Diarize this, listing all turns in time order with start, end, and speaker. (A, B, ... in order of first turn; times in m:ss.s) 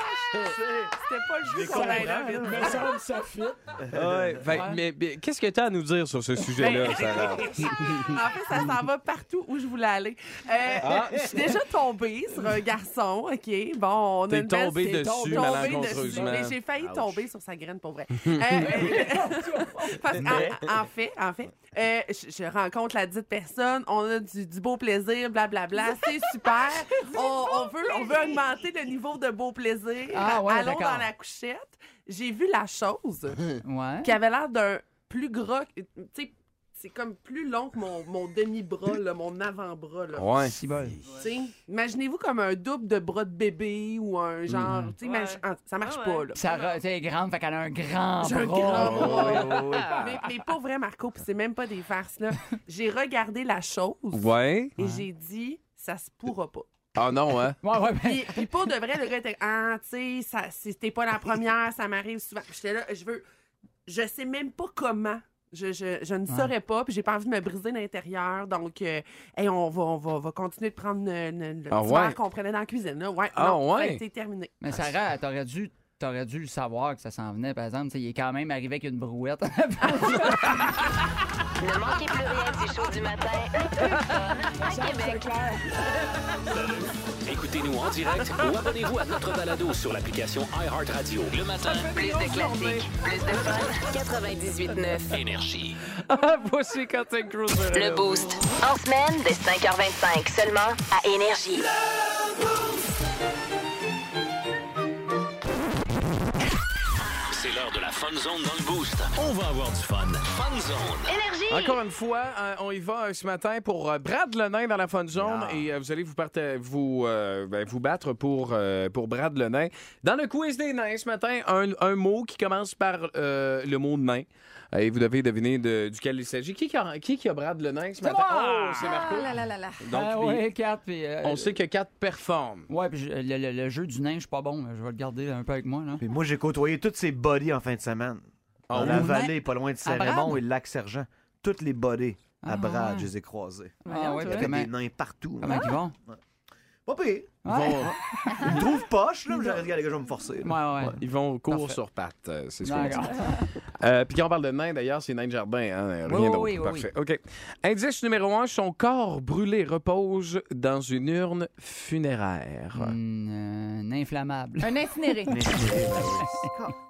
0:00.4-0:00.9 A
0:01.0-0:02.9 B
0:01.5-0:02.7 A
0:01.5-0:03.7 C
0:03.9-0:04.4 A
0:03.9-0:08.2 D
0:04.5-0:04.8 C
0:06.6-0:33.5 B
0:10.8-0:11.5 D
0:14.3-0:16.6 D
0:14.9-0:16.4 C
0:16.8-0:17.2 A
0:18.2-0:18.9 D
0:18.6-0:19.9 C
0:20.2-0:20.5 D
0:20.2-0:20.5 A
0:30.1-0:31.1 C
0:33.6-0:34.1 C
0:34.0-0:40.4 B
0:40.1-0:40.5 D
0:40.5-0:41.0 C
0:41.0-0:46.6 B
0:44.6-0:44.9 C
0:45.0-0:46.7 E
0:46.3-0:49.7 C
0:48.2-0:56.7 B
0:48.7-0:50.1 D
0:54.1-0:54.7 D
0:56.9-0:57.6 D
0:57.6-0:58.5 C
0:57.9-1:03.2 B
1:03.8-1:15.0 B
1:11.7-1:12.2 D
1:13.3-1:14.0 D
1:14.6-1:20.6 C
1:20.0-1:20.5 B
1:21.6-1:25.4 F
1:23.8-1:26.1 C
1:27.2-1:31.9 G
1:31.7-1:32.7 C
1:31.9-1:35.2 F
1:35.1-1:35.8 G
1:35.9-1:38.4 D
1:37.7-1:41.7 F
1:47.3-1:51.1 G
1:51.1-1:51.8 F
1:51.5-2:10.4 D
1:55.1-1:55.7 A
2:08.0-2:09.0 C
2:08.8-2:09.8 E
2:09.9-2:11.6 C
2:11.2-2:12.7 D
2:12.7-2:16.0 C
2:16.0-2:26.2 A
2:18.7-2:19.2 D
2:18.8-2:20.4 C
2:22.4-2:23.1 C
2:23.8-2:24.5 E
2:23.8-2:24.7 C
2:25.4-2:25.9 C
2:26.8-2:27.4 A
2:27.4-2:28.6 C
2:27.4-2:28.0 D
2:28.3-2:31.0 A
2:30.4-2:31.8 C
2:31.0-2:43.0 D
2:32.6-2:33.5 C
2:36.0-2:36.9 C
2:42.7-2:44.7 C
2:44.6-2:45.4 E
2:45.3-2:46.8 A
2:45.3-2:46.5 C